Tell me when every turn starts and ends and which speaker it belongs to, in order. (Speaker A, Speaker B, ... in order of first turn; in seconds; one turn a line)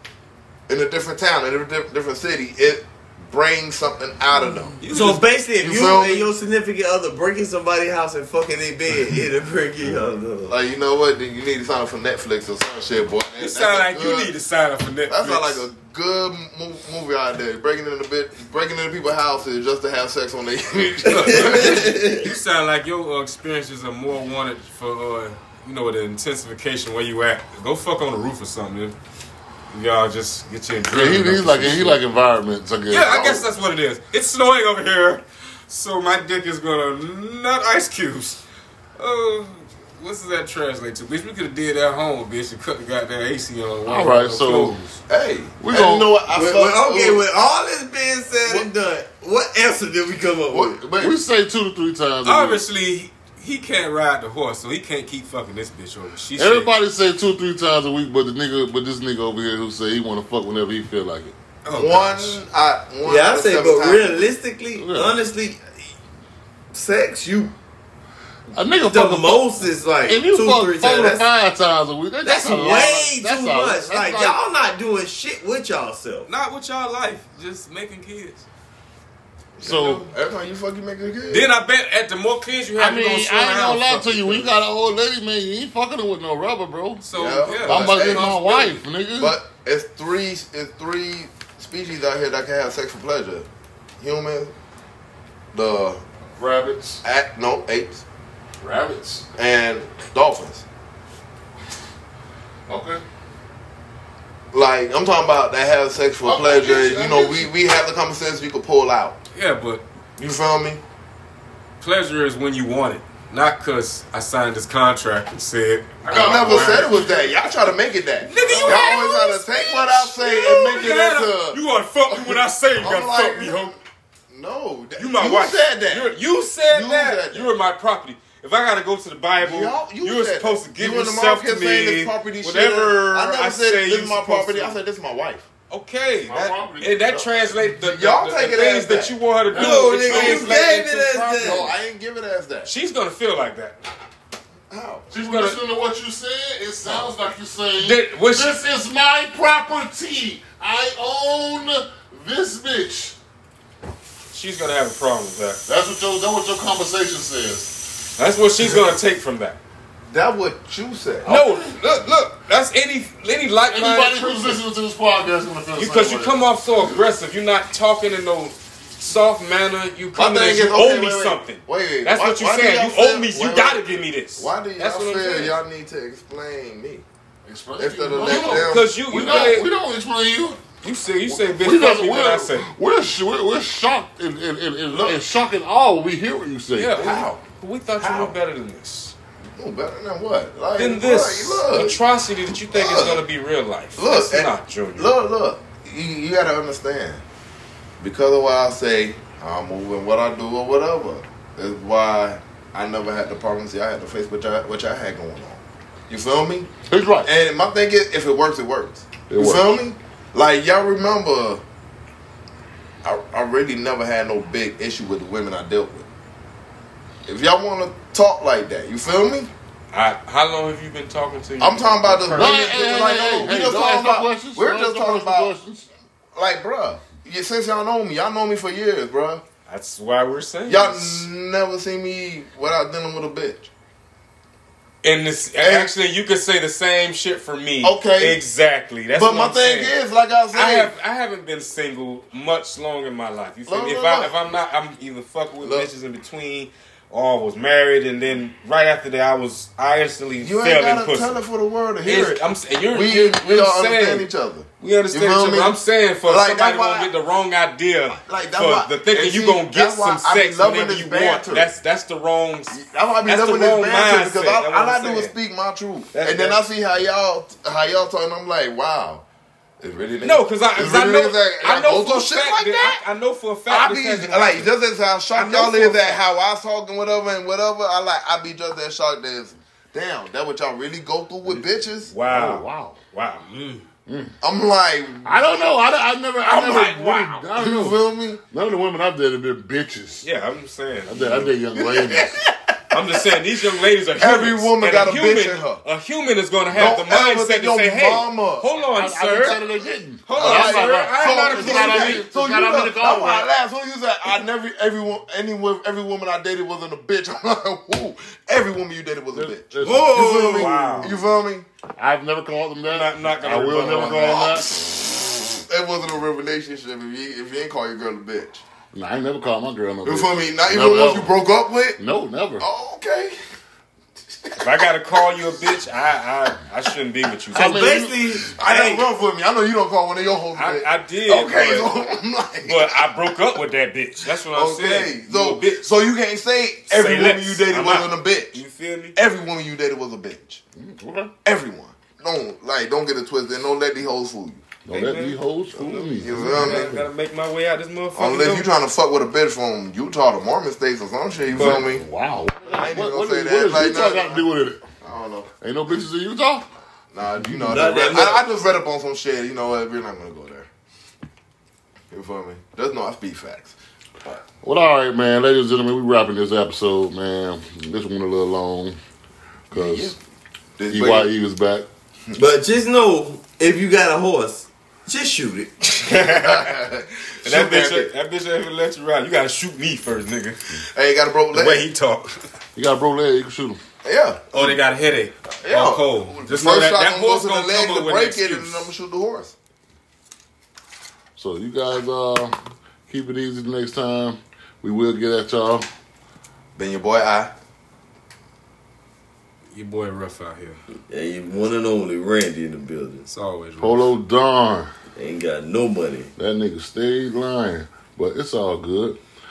Speaker A: 0.7-4.8
Speaker B: 4.8-5.2
Speaker C: 4.8-10.6
Speaker A: 5.6-6.3
Speaker A: 10.5-14.3
Speaker B: 13.4-15.7
Speaker A: 15.1-22.1
Speaker B: 20.9-28.9
Speaker C: 21.2-22.3
Speaker B: 29.7-32.0
Speaker D: 30.9-33.5
Speaker B: 32.9-38.4
Speaker B: 39.0-45.0
Speaker D: 43.9-44.8
Speaker A: 45.1-47.2
Speaker D: 45.6-46.1
Speaker C: 46.3-50.8
Speaker A: 50.5-51.2
Speaker D: 51.0-52.6
Speaker B: 52.2-56.7
Speaker D: 56.4-61.3
Speaker B: 61.6-62.4
Speaker A: 61.8-64.3
Speaker C: 63.0-65.6
Speaker D: 64.8-65.1
Speaker C: 66.7-67.5
Speaker D: 68.5-74.4
Speaker C: 68.8-71.3
Speaker C: 72.2-76.3
Speaker B: 76.3-78.5
Speaker A: 79.6-81.5
Speaker D: 79.6-80.1
Speaker B: 81.3-84.5
Speaker D: 82.8-87.0
Speaker B: 87.0-88.8
Speaker A: 87.1-88.7
Speaker D: 87.6-89.4
Speaker A: 89.2-93.5
Speaker A: 94.0-94.5
Speaker A: 95.5-96.0
Speaker D: 96.4-97.0
Speaker A: 97.0-98.0
Speaker D: 98.6-99.3
Speaker A: 99.4-100.7
Speaker D: 102.7-103.0
Speaker A: 104.5-109.2
Speaker D: 106.2-107.5
Speaker B: 109.3-109.8
Speaker A: 110.2-110.8
Speaker B: 111.8-116.9
Speaker D: 116.1-117.1
Speaker A: 116.1-123.7
Speaker B: 118.2-123.8
Speaker D: 118.4-119.0
Speaker A: 124.3-126.2
Speaker B: 125.0-134.8
Speaker A: 126.7-127.5
Speaker A: 129.4-135.5
Speaker B: 135.7-140.8
Speaker D: 136.3-137.5
Speaker A: 137.8-139.2
Speaker D: 139.5-141.7
Speaker C: 139.5-141.7
Speaker A: 140.7-142.7
Speaker B: 142.7-143.9
Speaker A: 144.7-145.1
Speaker D: 145.1-153.2
Speaker B: 145.2-145.6
Speaker B: 147.8-148.6
Speaker B: 154.3-155.6
Speaker D: 155.7-157.8
Speaker B: 158.2-159.6
Speaker A: 160.1-161.3
Speaker D: 161.2-161.8
Speaker B: 161.3-164.6
Speaker D: 163.7-166.4
Speaker B: 165.8-175.6
Speaker A: 170.2-173.8
Speaker A: 174.4-177.1
Speaker D: 177.4-180.6
Speaker A: 177.8-179.3
Speaker B: 178.2-179.7
Speaker B: 180.8-182.7
Speaker D: 181.3-187.0
Speaker A: 184.9-185.2
Speaker B: 186.8-189.2
Speaker A: 187.0-187.4
Speaker A: 188.0-188.3
Speaker A: 189.6-192.0
Speaker B: 190.8-195.2
Speaker A: 192.7-193.2
Speaker A: 194.0-197.2
Speaker A: 198.0-206.7
Speaker D: 206.9-207.3
Speaker A: 207.2-211.6
Speaker D: 209.3-209.8
Speaker A: 213.0-216.1
Speaker A: 217.3-219.5
Speaker B: 219.9-222.9
Speaker A: 221.6-225.5
Speaker D: 222.3-225.9
Speaker A: 226.4-229.4
Speaker B: 229.7-231.3
Speaker A: 230.7-233.7
Speaker B: 235.0-239.9
Speaker A: 235.6-235.9
Speaker A: 237.8-238.4
Speaker A: 239.2-240.9
Speaker B: 240.5-251.4
Speaker A: 243.7-244.3
Speaker A: 245.6-245.9
Speaker A: 250.4-257.1
Speaker B: 252.0-254.3
Speaker B: 254.8-265.3
Speaker A: 258.3-261.7
Speaker A: 262.7-269.2
Speaker B: 266.1-266.6
Speaker A: 269.8-273.0
Speaker B: 270.2-274.7
Speaker A: 273.7-282.1
Speaker B: 275.3-276.2
Speaker B: 282.1-283.5
Speaker D: 282.3-283.0
Speaker C: 283.5-283.8
Speaker D: 284.1-284.3
Speaker A: 284.4-285.7
Speaker D: 285.2-290.3
Speaker B: 286.4-287.4
Speaker A: 287.6-288.4
Speaker B: 290.2-291.6
Speaker D: 291.1-292.4
Speaker A: 291.8-292.8
Speaker B: 292.9-299.6
Speaker A: 294.2-295.8
Speaker A: 296.7-298.7
Speaker D: 298.9-303.5
Speaker B: 300.3-302.2
Speaker A: 300.4-311.7
Speaker D: 309.3-310.3
Speaker C: 309.8-311.1
Speaker B: 310.4-311.2
Speaker D: 312.0-314.7
Speaker B: 312.9-314.6
Speaker A: 314.2-314.9
Speaker A: 315.7-318.6
Speaker D: 318.9-321.3
Speaker A: 320.0-322.0
Speaker D: 322.0-322.6
Speaker A: 322.6-323.4
Speaker A: 324.4-325.2
Speaker B: 324.6-327.8
Speaker D: 327.5-328.4
Speaker C: 327.5-329.1
Speaker A: 328.6-333.1
Speaker B: 330.5-331.9
Speaker B: 332.7-335.9
Speaker A: 334.5-338.6
Speaker B: 336.9-339.2
Speaker A: 339.2-340.6
Speaker D: 340.8-341.3
Speaker A: 341.4-344.6
Speaker D: 344.9-347.1
Speaker B: 344.9-348.7
Speaker A: 346.2-347.0
Speaker A: 348.1-352.0
Speaker D: 351.5-354.8
Speaker B: 351.5-351.9
Speaker A: 352.7-354.4
Speaker A: 355.0-355.5
Speaker D: 355.6-356.7
Speaker A: 357.1-360.7
Speaker D: 357.4-357.9
Speaker C: 357.6-358.4
Speaker A: 362.1-363.8
Speaker D: 364.6-369.0
Speaker D: 369.7-370.1
Speaker A: 369.7-370.2
Speaker A: 370.8-371.3
Speaker D: 370.9-371.9
Speaker C: 372.4-375.7
Speaker B: 375.9-376.8
Speaker A: 376.0-378.1
Speaker B: 377.4-380.8
Speaker A: 380.9-381.9
Speaker B: 381.5-382.4
Speaker D: 382.8-383.8
Speaker A: 384.0-384.7
Speaker B: 384.5-388.9
Speaker A: 385.6-389.6
Speaker D: 391.4-392.6
Speaker D: 393.1-395.9
Speaker A: 396.8-397.5
Speaker B: 399.7-400.8
Speaker C: 401.1-403.3
Speaker B: 403.3-404.1
Speaker D: 403.8-404.9
Speaker C: 405.2-406.3
Speaker D: 406.4-409.2